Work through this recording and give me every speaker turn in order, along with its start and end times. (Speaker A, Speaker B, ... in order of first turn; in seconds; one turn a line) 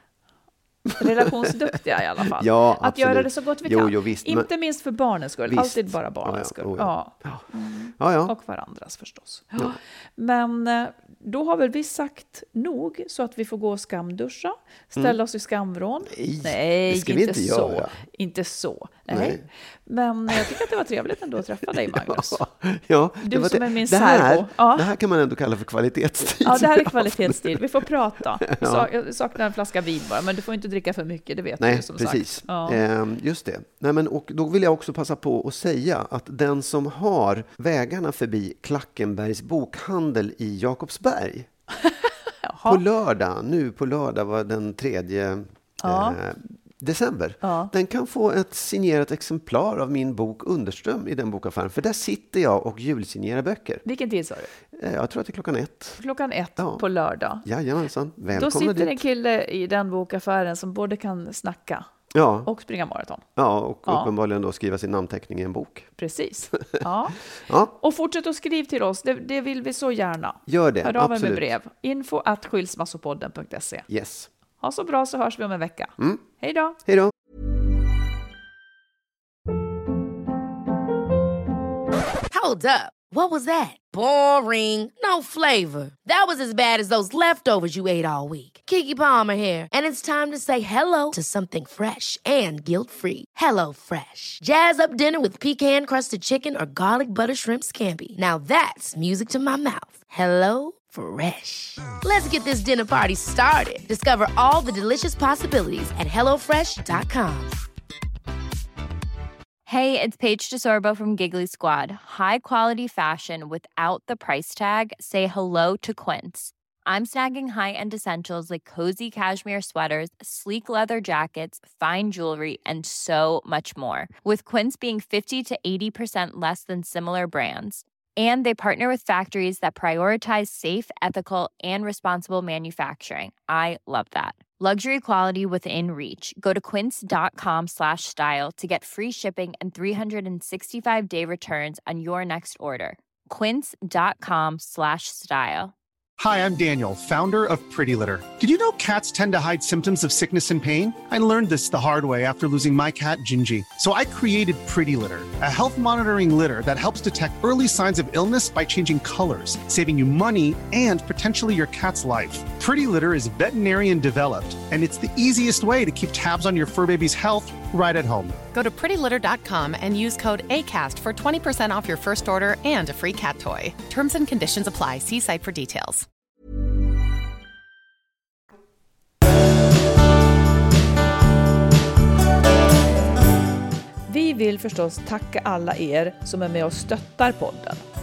Speaker A: 0.9-1.5
Speaker B: 1.0-22.4
Speaker A: 2.2-4.5
Speaker A: 5.5-7.5
Speaker A: 8.0-8.3
Speaker A: 16.1-18.0
Speaker A: 19.1-19.4
Speaker A: 20.3-20.7
Speaker A: 21.6-27.6
Speaker B: 23.2-24.9
Speaker B: 26.4-32.8
Speaker A: 28.4-28.9
Speaker A: 31.6-41.5
Speaker B: 41.8-42.8
Speaker A: 42.6-53.8
Speaker B: 45.8-46.2
Speaker B: 47.4-47.7
Speaker B: 53.8-54.5
Speaker A: 54.7-56.0
Speaker B: 56.0-57.4
Speaker A: 56.6-56.8
Speaker A: 57.4-59.0
Speaker B: 58.3-61.9
Speaker A: 62.1-62.5
Speaker B: 62.4-63.2
Speaker A: 63.4-65.9
Speaker B: 63.9-64.1
Speaker B: 66.0-67.2
Speaker A: 67.3-67.7
Speaker B: 67.7-73.9
Speaker A: 70.5-71.5
Speaker A: 73.9-74.3
Speaker B: 74.6-76.8
Speaker A: 76.0-76.2
Speaker A: 76.8-77.1
Speaker C: 82.3-107.6
Speaker D: 109.7-145.7
Speaker E: 146.2-168.4
Speaker F: 168.5-176.1
Speaker B: 184.1-187.8